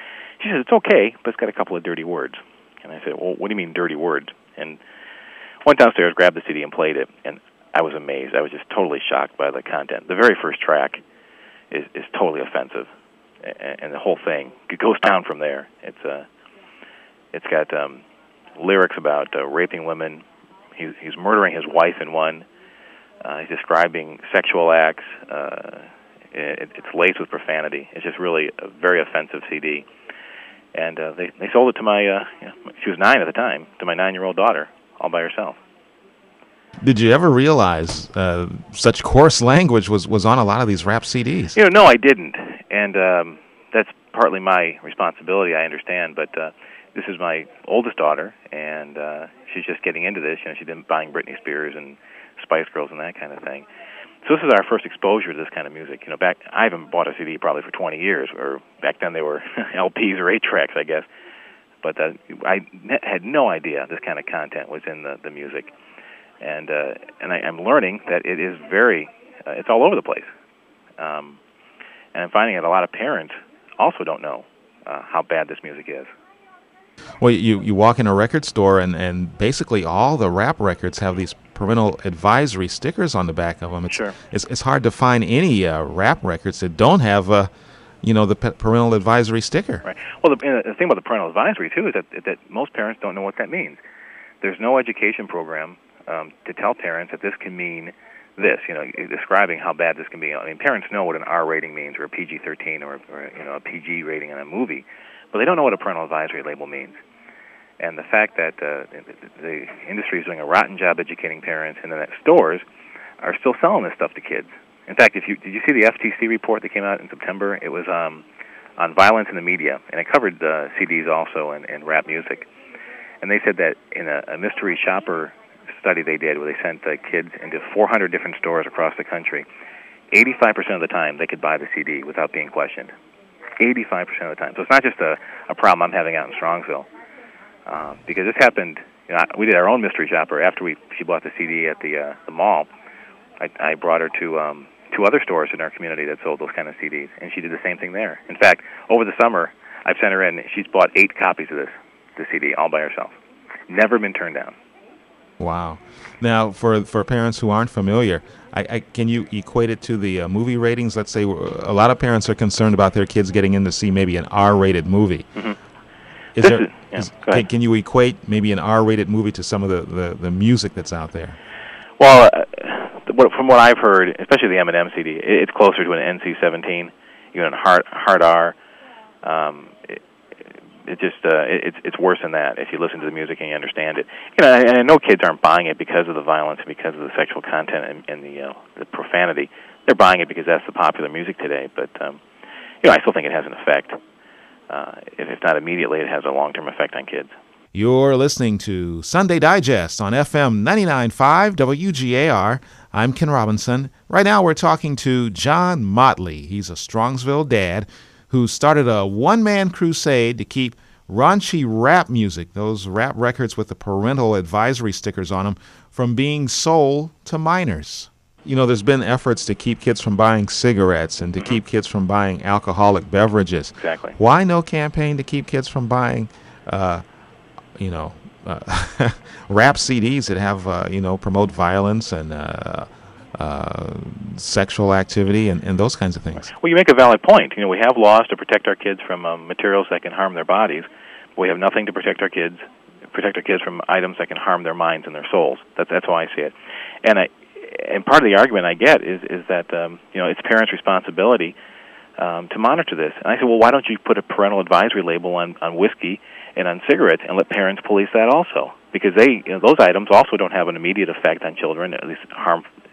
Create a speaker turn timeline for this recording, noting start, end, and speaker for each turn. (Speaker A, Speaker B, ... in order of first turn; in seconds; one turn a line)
Speaker A: 0.4-4.8
Speaker A: 5.7-11.0
Speaker A: 11.7-12.9
Speaker A: 13.4-16.3
Speaker A: 17.3-18.0
Speaker A: 18.6-20.2
Speaker A: 20.8-22.5
Speaker A: 23.2-29.9
Speaker A: 30.8-35.6
Speaker B: 36.8-41.6
Speaker A: 41.5-53.7
Speaker A: 54.2-61.1
Speaker A: 61.8-65.7
Speaker A: 66.4-70.3
Speaker A: 71.0-71.4
Speaker A: 72.2-76.1
Speaker B: 77.2-87.5
Speaker B: 88.0-89.8
Speaker A: 89.8-93.8
Speaker A: 94.4-107.0
Speaker A: 107.8-112.6
Speaker A: 113.2-118.2
Speaker A: 118.8-122.5
Speaker A: 123.2-129.5
Speaker A: 130.1-132.9
Speaker A: 133.6-136.9
Speaker A: 137.7-142.7
Speaker A: 143.4-153.1
Speaker A: 153.7-154.6
Speaker B: 155.4-165.3
Speaker B: 166.4-171.4
Speaker A: 166.4-167.4
Speaker A: 172.0-178.6
Speaker A: 179.2-180.0
Speaker A: 180.9-192.2
Speaker A: 192.8-194.0
Speaker A: 194.7-197.3
Speaker B: 197.7-227.0
Speaker A: 223.8-224.2
Speaker B: 227.8-236.5
Speaker A: 236.6-240.9
Speaker A: 241.4-251.6
Speaker A: 252.2-262.6